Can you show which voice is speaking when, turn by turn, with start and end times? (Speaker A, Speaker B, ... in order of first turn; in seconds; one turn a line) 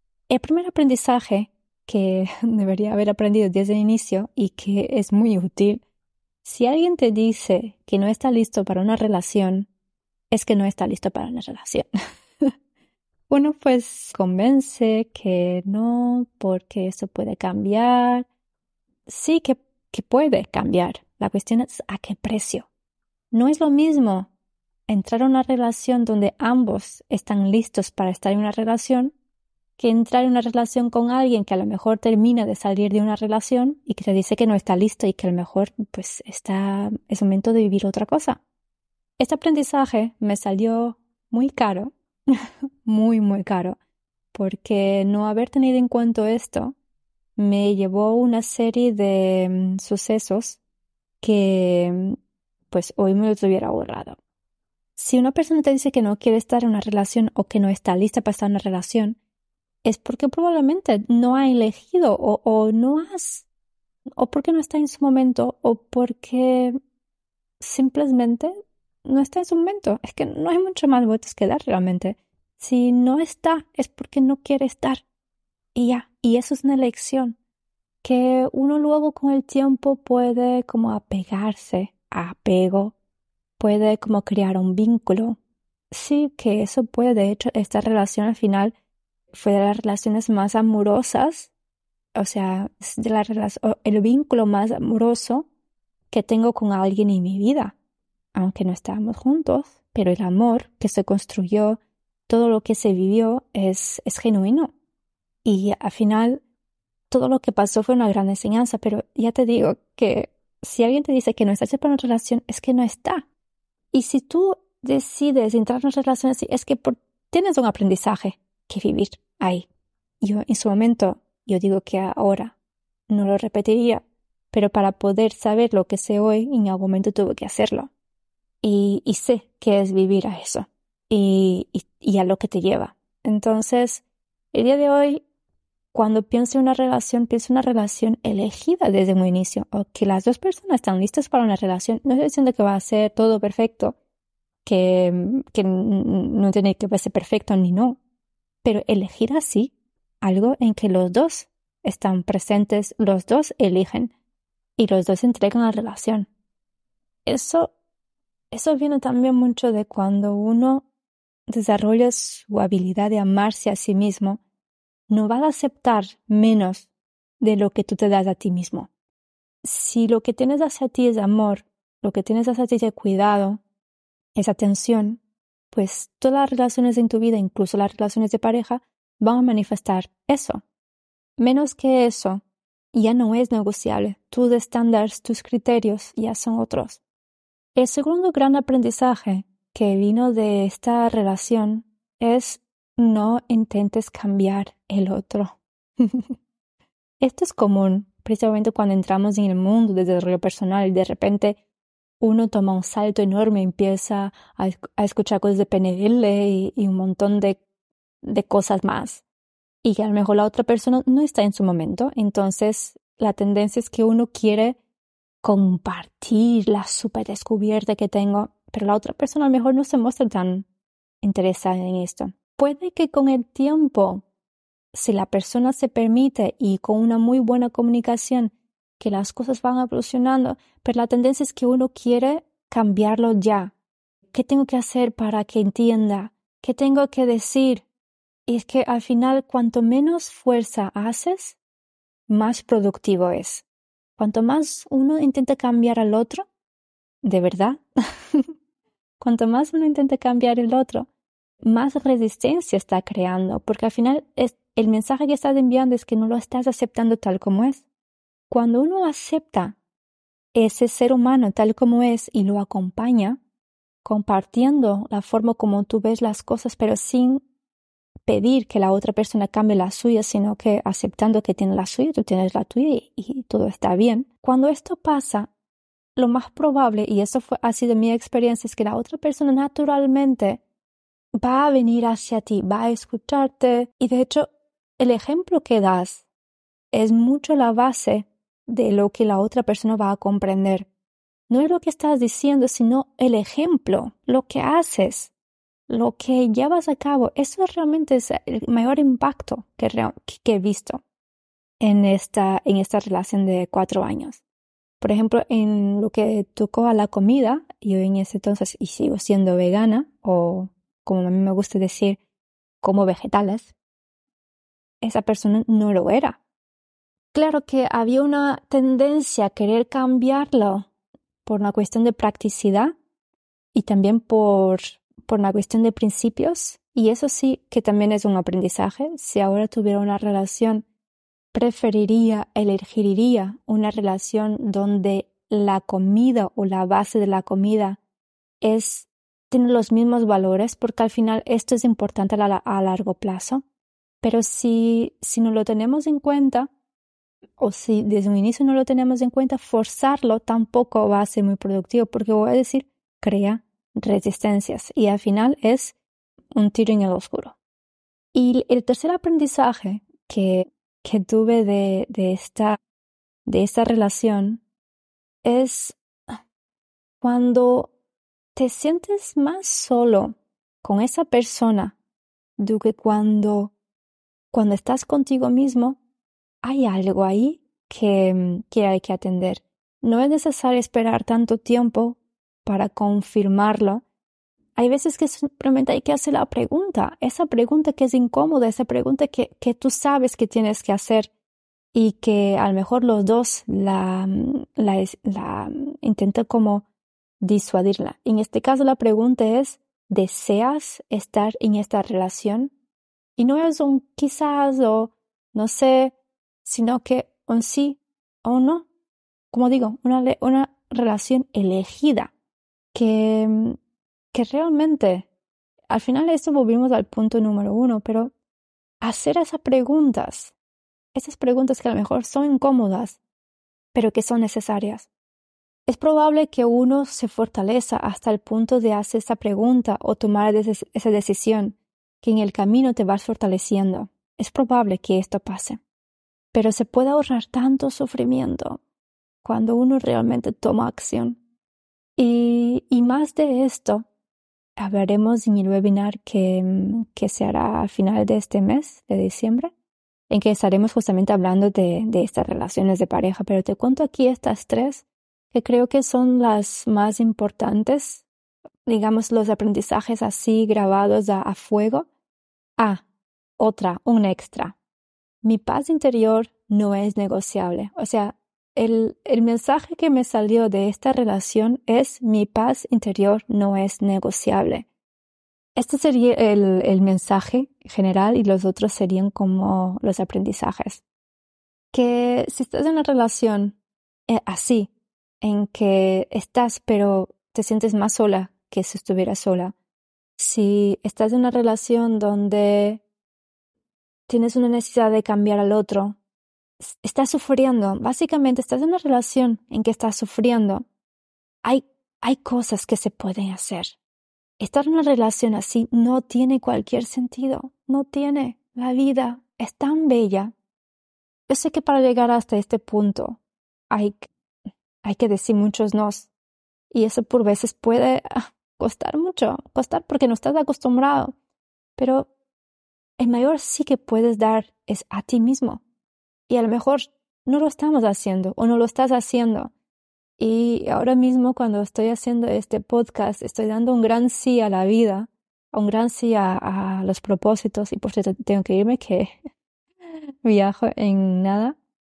Speaker A: 0.3-5.8
Speaker A: 6.4-9.7
Speaker A: 10.3-11.9
Speaker A: 13.3-18.3
Speaker A: 19.1-22.7
Speaker A: 23.3-24.3
Speaker A: 24.9-29.1
Speaker A: 29.8-38.4
Speaker A: 39.2-41.9
Speaker A: 42.9-43.8
Speaker A: 44.3-46.8
Speaker A: 47.4-50.6
Speaker A: 51.2-52.2
Speaker A: 52.7-54.2
Speaker A: 55.0-59.2
Speaker A: 59.8-63.5
Speaker A: 64.2-66.8
Speaker A: 67.6-68.5
Speaker A: 69.0-75.0
Speaker A: 75.8-77.4
Speaker A: 78.0-83.0
Speaker A: 83.6-85.4
Speaker A: 85.9-88.7
Speaker A: 89.3-91.5
Speaker A: 92.1-95.5
Speaker A: 96.1-97.8
Speaker A: 98.3-104.7
Speaker A: 105.5-106.4
Speaker A: 107.1-113.2
Speaker A: 113.9-119.7
Speaker A: 120.2-122.5
Speaker A: 123.1-127.9
Speaker A: 128.6-135.2
Speaker A: 135.9-144.0
Speaker A: 144.7-148.0
Speaker A: 148.6-154.1
Speaker A: 154.8-156.3
Speaker A: 157.3-157.7
Speaker A: 158.5-160.8
Speaker A: 161.5-164.4
Speaker A: 165.1-166.9
Speaker A: 167.4-168.9
Speaker A: 169.6-173.6
Speaker A: 174.3-175.2
Speaker A: 175.7-180.6
Speaker A: 181.4-182.4
Speaker A: 182.9-187.0
Speaker A: 187.8-196.3
Speaker A: 197.2-201.6
Speaker A: 202.2-207.6
Speaker A: 208.2-209.2
Speaker A: 209.8-214.8
Speaker A: 215.4-220.7
Speaker A: 221.2-224.2
Speaker A: 224.9-233.7
Speaker A: 234.3-237.8
Speaker A: 238.5-241.6
Speaker A: 242.3-243.7
Speaker A: 244.2-246.5
Speaker A: 247.2-247.8
Speaker A: 249.2-251.1
Speaker A: 251.6-257.9
Speaker A: 258.5-259.8
Speaker A: 260.5-263.4
Speaker A: 264.0-267.4
Speaker A: 268.3-275.5
Speaker A: 276.2-280.6
Speaker A: 281.4-284.5
Speaker A: 285.0-286.3
Speaker A: 286.9-290.9
Speaker A: 291.5-295.3
Speaker A: 295.9-301.0
Speaker A: 301.8-304.4
Speaker A: 305.0-312.2
Speaker A: 312.8-313.7
Speaker A: 315.0-316.4
Speaker A: 317.3-320.9
Speaker A: 321.4-322.9
Speaker A: 323.7-330.9
Speaker A: 331.5-338.0
Speaker A: 338.6-343.6
Speaker A: 344.2-346.7
Speaker A: 347.6-355.9
Speaker A: 356.5-357.5
Speaker A: 358.3-362.8
Speaker A: 363.5-364.6
Speaker A: 365.4-366.0
Speaker A: 367.2-367.9
Speaker A: 368.6-371.9
Speaker A: 372.6-373.7
Speaker A: 374.5-376.0
Speaker A: 376.6-384.0
Speaker A: 384.8-391.3
Speaker A: 391.9-396.9
Speaker A: 397.4-402.7
Speaker A: 403.4-408.9
Speaker A: 409.5-412.3
Speaker A: 412.9-413.8
Speaker A: 414.3-415.3
Speaker A: 415.9-418.3
Speaker A: 419.0-420.5
Speaker A: 421.1-423.2
Speaker A: 423.9-425.1
Speaker A: 425.9-435.8
Speaker A: 436.5-438.8
Speaker A: 439.4-441.4
Speaker A: 442.2-444.1
Speaker A: 444.8-449.7
Speaker A: 450.3-458.2
Speaker A: 458.9-462.1
Speaker A: 462.8-463.0
Speaker A: 463.6-464.8
Speaker A: 465.4-474.9
Speaker A: 475.8-481.0
Speaker A: 481.9-483.8
Speaker A: 484.3-484.9
Speaker A: 485.4-489.7
Speaker A: 490.4-493.0
Speaker A: 494.3-496.2
Speaker A: 496.8-500.9
Speaker A: 501.6-504.0
Speaker A: 504.6-510.5
Speaker A: 511.5-514.3
Speaker A: 515.0-516.3
Speaker A: 516.9-521.3
Speaker A: 522.0-522.3
Speaker A: 523.2-525.8
Speaker A: 526.5-529.7
Speaker A: 530.4-539.4
Speaker A: 540.4-541.8